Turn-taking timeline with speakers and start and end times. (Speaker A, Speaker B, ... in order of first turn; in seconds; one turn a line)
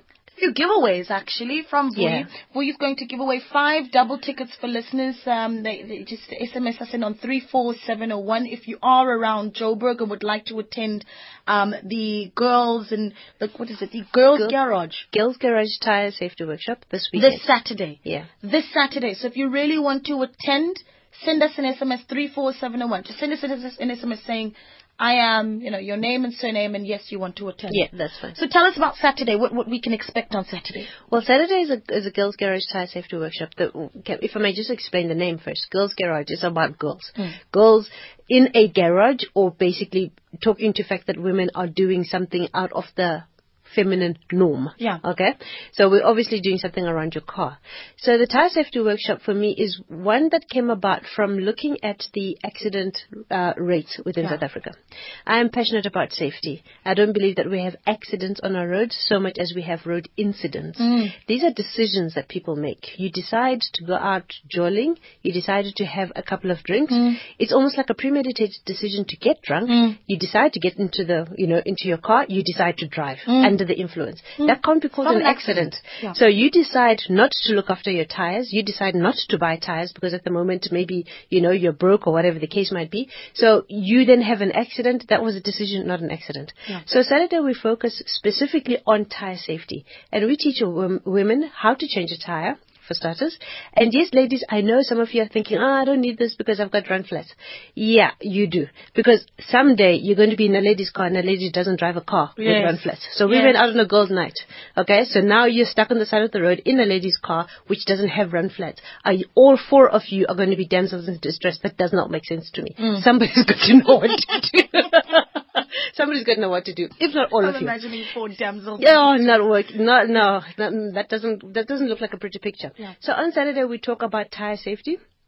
Speaker A: 0.4-15.1
Speaker B: 1.9-2.3
Speaker B: 15.1-17.4
Speaker A: 17.1-30.9
Speaker B: 27.7-28.4
Speaker B: 31.1-117.8
Speaker A: 60.8-61.1
Speaker A: 66.9-67.2
Speaker A: 69.7-70.0
Speaker A: 73.3-73.5
Speaker A: 74.4-76.2
Speaker A: 102.4-103.6
Speaker A: 112.8-113.0
Speaker A: 117.4-119.4
Speaker B: 118.8-125.0